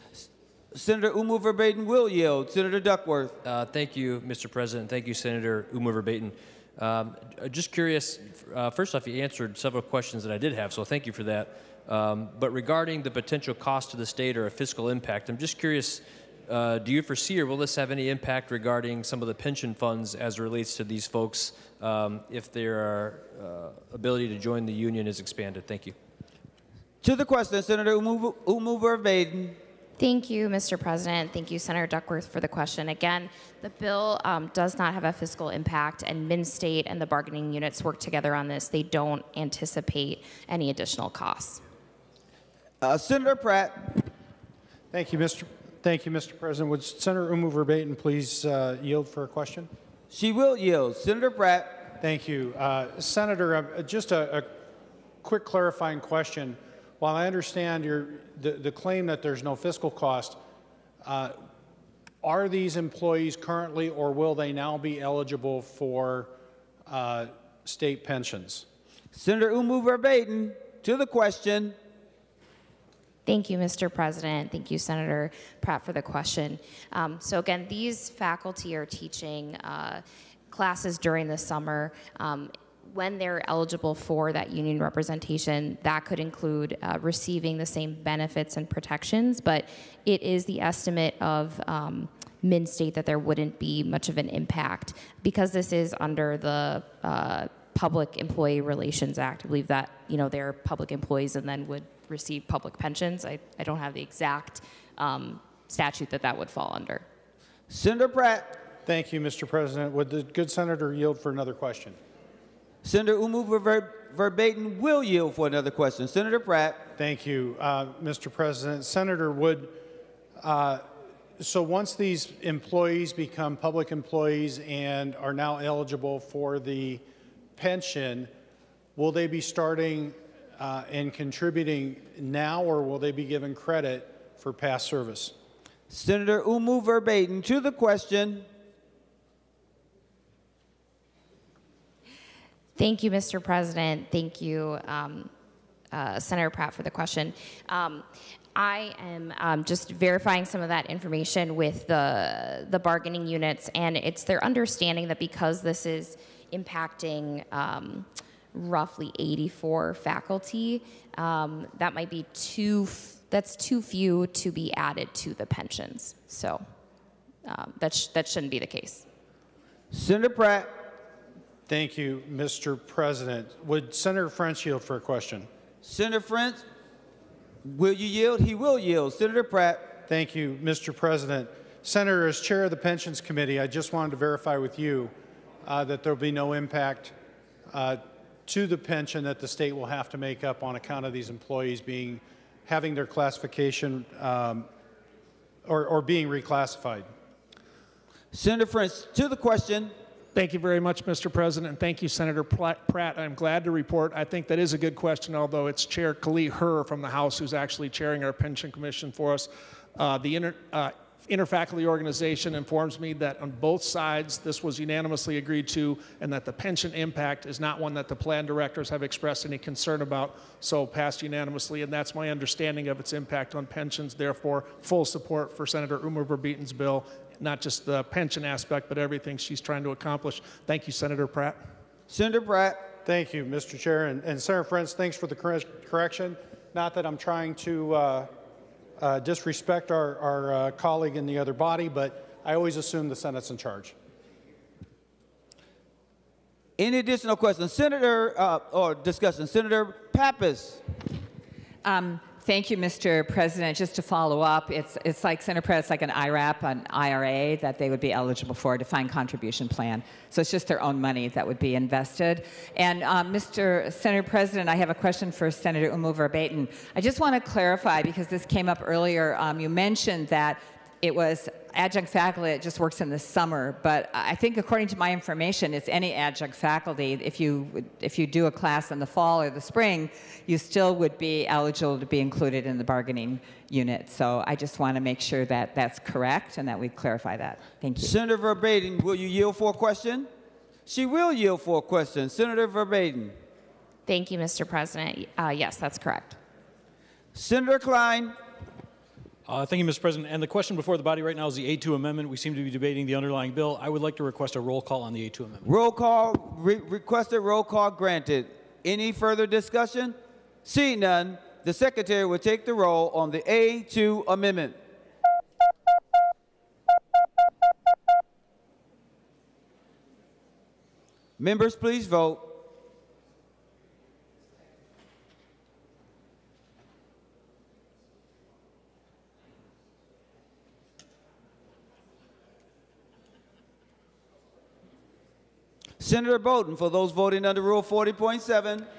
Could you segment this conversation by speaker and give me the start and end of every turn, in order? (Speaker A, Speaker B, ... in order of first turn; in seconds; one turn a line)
Speaker A: 0.7-3.3
Speaker B: 3.4-25.9
Speaker A: 27.0-29.6
Speaker C: 30.0-41.6
Speaker A: 42.8-44.0
Speaker D: 44.9-49.7
Speaker A: 50.1-51.9
Speaker D: 52.0-54.6
Speaker D: 55.2-60.4
Speaker D: 61.0-61.4
Speaker D: 62.2-66.3
Speaker D: 66.9-68.7
Speaker A: 69.1-71.8
Speaker C: 73.3-107.0
Speaker A: 107.7-108.6
Speaker D: 108.8-112.0
Speaker A: 112.8-116.9
Speaker D: 117.0-119.8
Speaker D: 120.4-120.9
Speaker D: 121.4-127.0
Speaker D: 127.6-128.3
Speaker D: 129.0-135.3
Speaker A: 135.9-138.5
Speaker C: 142.8-145.3
Speaker C: 145.9-148.1
Speaker C: 148.6-166.6
Speaker C: 167.4-169.1
Speaker A: 169.9-170.8
Speaker D: 171.7-175.5
Speaker A: 175.8-176.6
Speaker A: 177.7-180.0
Speaker D: 180.1-187.2
Speaker D: 187.7-194.7
Speaker D: 195.7-197.1
Speaker A: 198.3-199.9
Speaker E: 200.3-231.6
Speaker A: 232.1-232.9
Speaker D: 233.0-238.3
Speaker D: 239.0-243.9
Speaker A: 246.8-250.8
Speaker F: 251.8-288.1
Speaker A: 288.0-290.3
Speaker A: 290.9-293.4
Speaker C: 294.1-296.4
Speaker A: 297.4-298.4
Speaker G: 299.5-305.7
Speaker A: 305.6-314.8
Speaker A: 321.4-322.6
Speaker A: 336.0-338.9